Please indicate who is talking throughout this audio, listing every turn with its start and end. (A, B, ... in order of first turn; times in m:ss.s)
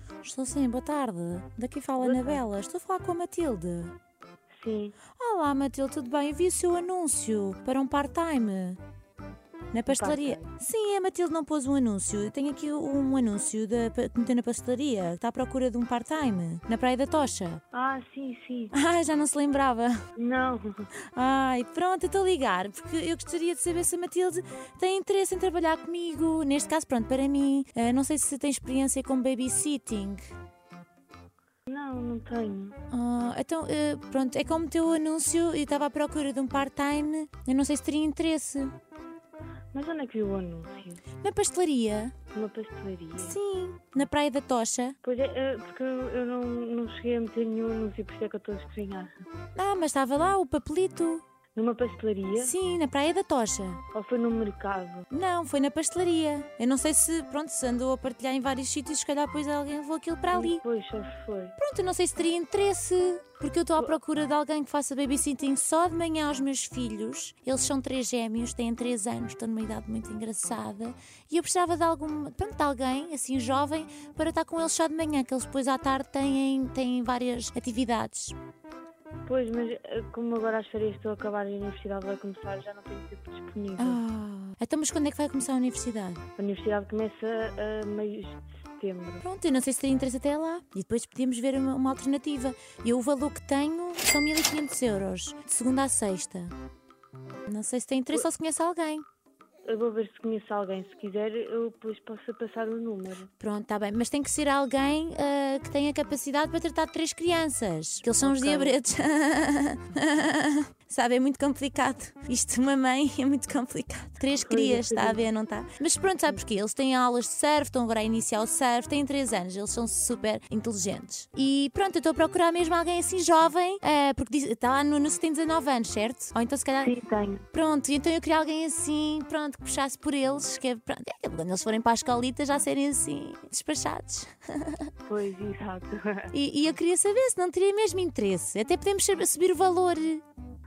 0:00.2-0:03.9 A
0:02.0-0:02.4 B
0:04.6-0:05.0 B
0:05.2-0:08.8 A
0:09.7-0:17.6 A
0:09.9-0:10.5 B
0:17.7-0:18.7 B
0:18.7-0:20.0 A
0:20.2-0:20.9 B
0:21.1-0:30.2 A
0:31.7-0:32.8 B
0:32.9-0:38.7 A
0:39.7-0:41.0 B
0:41.2-0:42.1 A
0:42.3-0:43.4 B
0:43.2-0:45.0 A
0:45.0-0:49.1 B
0:49.5-0:51.2 A
0:51.5-0:52.5 B
0:52.3-0:53.8 A
0:53.9-0:55.1 B
0:55.1-1:00.6 A
1:00.3-1:01.6 B
1:01.6-1:18.4 A
1:19.2-1:24.0 B
1:23.8-1:26.2 A
1:26.4-1:29.2 B
1:29.2-1:36.5 A
1:37.5-1:39.0 A
1:39.6-1:43.3 B
1:43.4-2:06.9 A
1:48.2-1:48.8 B
1:54.4-1:55.2 B
2:06.8-2:07.4 B
2:07.5-2:14.9 A
2:15.0-2:16.3 B
2:16.3-2:20.2 A